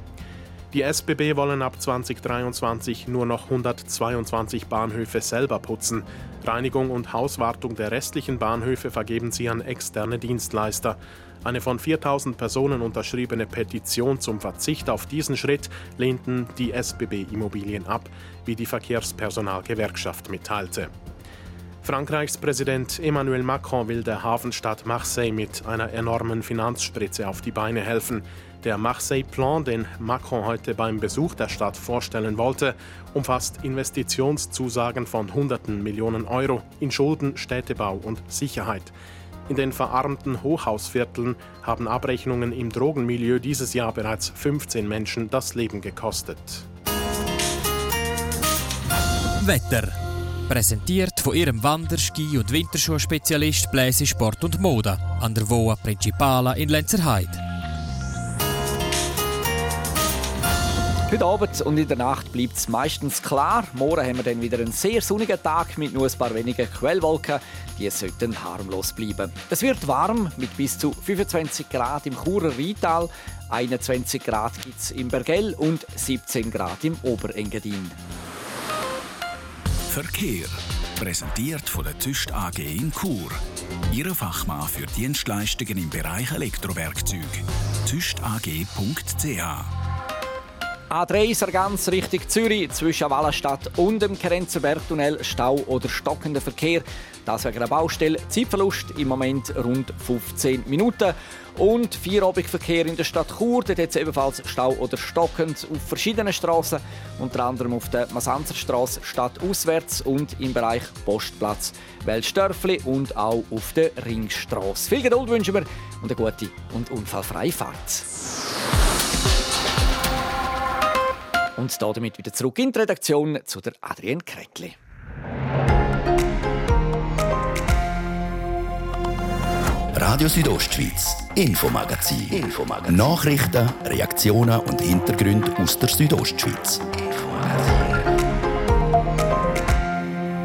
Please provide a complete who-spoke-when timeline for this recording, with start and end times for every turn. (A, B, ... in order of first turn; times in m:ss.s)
0:00.7-0:20.9 A
0:21.8-0:38.9 A
0:39.5-0:46.6 A
0:49.4-0:50.0 B
0:50.5-0:57.4 B
1:01.1-1:18.0 C
1:19.9-1:29.7 D
1:30.9-1:58.0 C
2:01.6-2:04.8 C
2:09.9-2:17.9 E